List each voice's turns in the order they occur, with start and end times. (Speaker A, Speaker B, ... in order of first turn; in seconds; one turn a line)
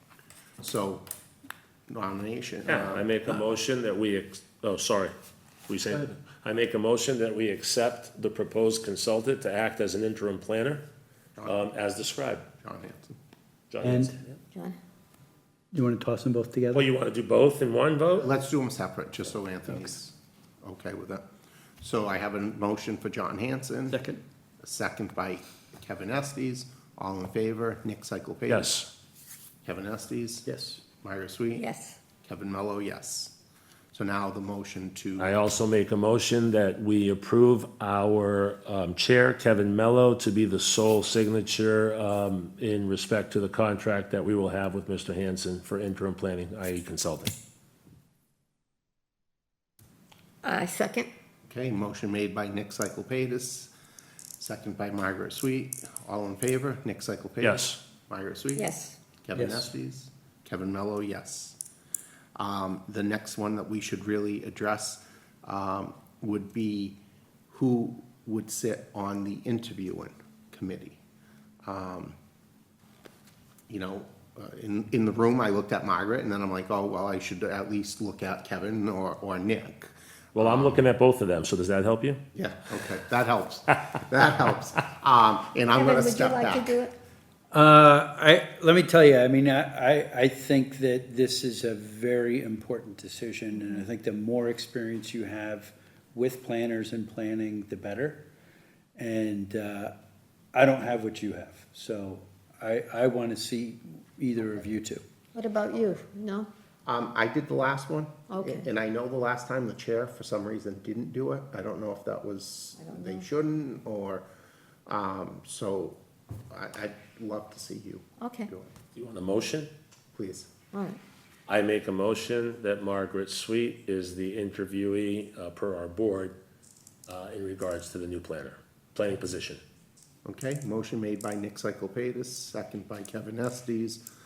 Speaker A: 0.6-1.1
Speaker A: 1.9-3.1
Speaker B: 2.7-5.1
Speaker B: 5.7-10.8
Speaker B: 11.4-12.4
Speaker A: 12.6-13.2
Speaker B: 13.7-14.1
Speaker C: 13.8-14.2
Speaker C: 15.7-16.9
Speaker B: 16.7-18.3
Speaker A: 18.2-21.2
Speaker A: 21.8-24.0
Speaker C: 23.9-24.2
Speaker A: 24.6-28.8
Speaker B: 28.5-28.9
Speaker A: 29.6-30.4
Speaker C: 30.4-30.8
Speaker A: 31.0-31.6
Speaker D: 31.6-32.0
Speaker A: 32.2-33.3
Speaker A: 33.9-35.3
Speaker B: 35.2-47.3
Speaker D: 50.4-51.1
Speaker A: 51.5-53.7
Speaker A: 54.4-58.7
Speaker B: 57.4-57.8
Speaker D: 58.5-59.0
Speaker A: 59.2-61.6
Speaker C: 59.3-59.7
Speaker A: 62.4-67.0
Speaker A: 67.5-71.0
Speaker A: 71.6-72.2
Speaker A: 73.7-80.8
Speaker B: 80.3-82.2
Speaker A: 82.3-86.7
Speaker D: 85.7-86.9
Speaker C: 87.5-98.2
Speaker C: 99.0-99.9
Speaker C: 100.5-105.0
Speaker D: 105.3-106.5
Speaker A: 106.8-114.2
Speaker D: 108.3-108.6
Speaker D: 112.8-113.2
Speaker A: 114.9-116.0
Speaker A: 116.5-118.7
Speaker D: 118.2-118.5
Speaker B: 118.9-119.7
Speaker A: 120.1-120.5
Speaker D: 120.7-121.0
Speaker B: 121.5-126.3
Speaker B: 127.1-129.6
Speaker A: 130.2-134.0